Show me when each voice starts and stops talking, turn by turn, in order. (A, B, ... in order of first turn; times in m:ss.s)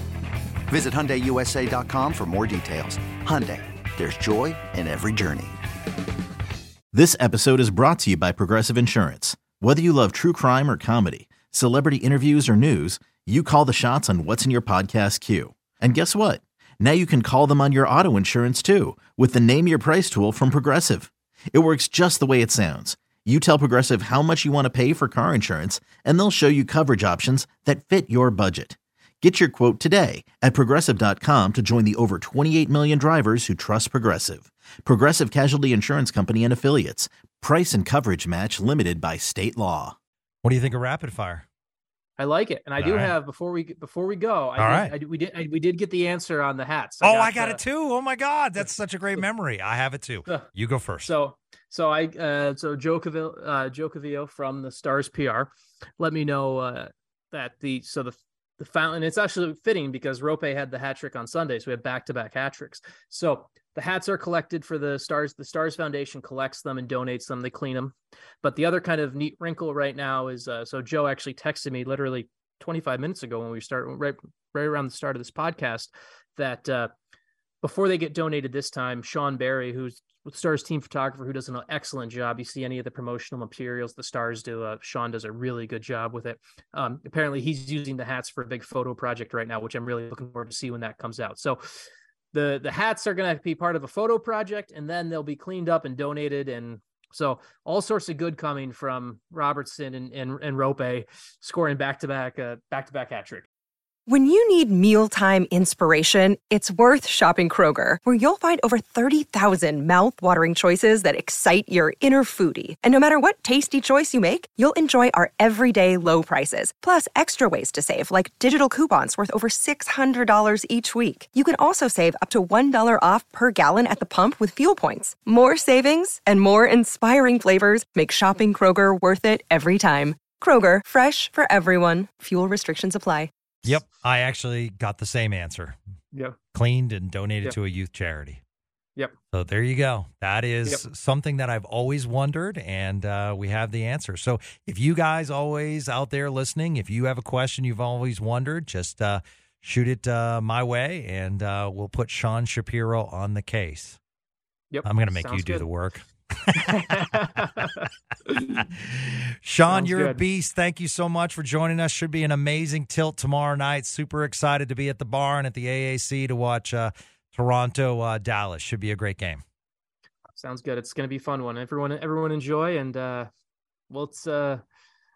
0:00.7-0:05.5 A
0:06.9-0:39.9 B
0:40.4-0:41.4 C
0:42.2-0:47.6 D
0:42.8-0:43.1 C
0:44.6-0:44.9 C
0:47.0-0:51.1 C
0:51.0-1:16.9 D
1:17.6-1:43.5 D
1:44.1-2:13.3 E
2:13.7-2:15.8 C
2:16.1-2:16.4 D
2:16.5-2:18.4 C
2:19.3-2:34.0 C
2:34.7-2:35.6 D
2:34.8-2:36.6 C
2:36.6-2:38.6 D
2:38.5-2:49.4 C
2:39.6-2:40.2 D
2:50.4-2:53.3 D
2:53.9-2:54.6 D